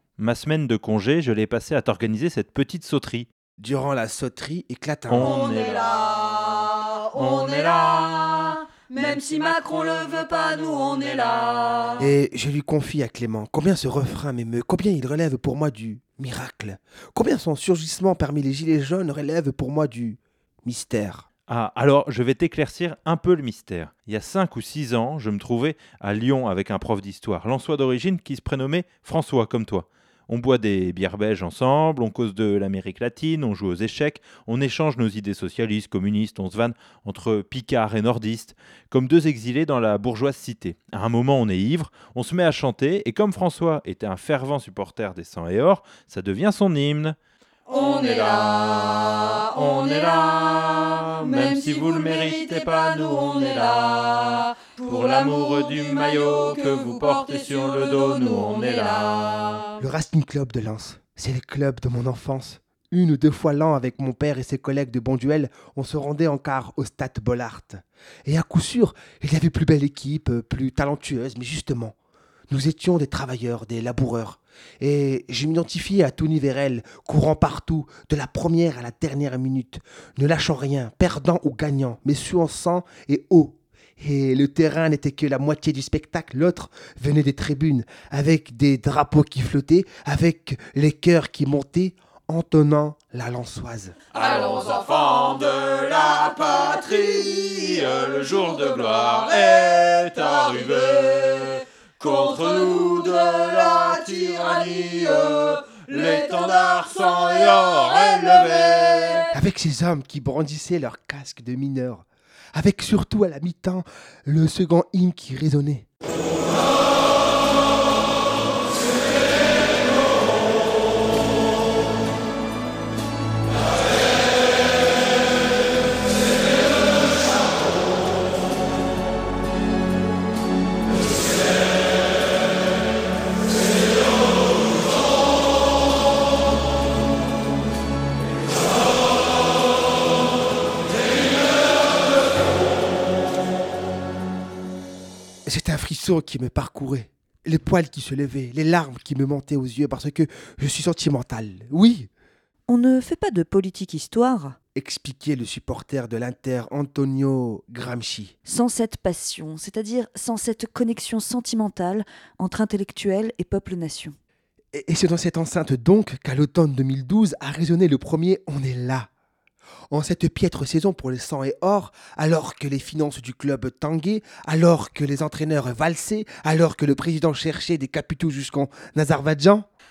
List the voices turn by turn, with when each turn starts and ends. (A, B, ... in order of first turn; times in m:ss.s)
0:00.2-0:03.3 A
0:03.6-0:05.6 B
0:05.1-0:05.8 A
0:05.2-0:12.0 C
0:12.0-0:21.2 B
0:21.5-0:47.2 A
0:47.7-0:59.7 C
0:59.8-1:11.9 B
1:12.5-1:34.0 B
1:34.1-1:49.3 C
1:49.3-1:55.8 B
2:25.4-2:32.1 B
2:32.7-2:34.6 D
2:34.7-2:38.3 B
2:38.4-2:44.2 D
2:44.7-2:49.1 B
2:49.9-2:59.7 B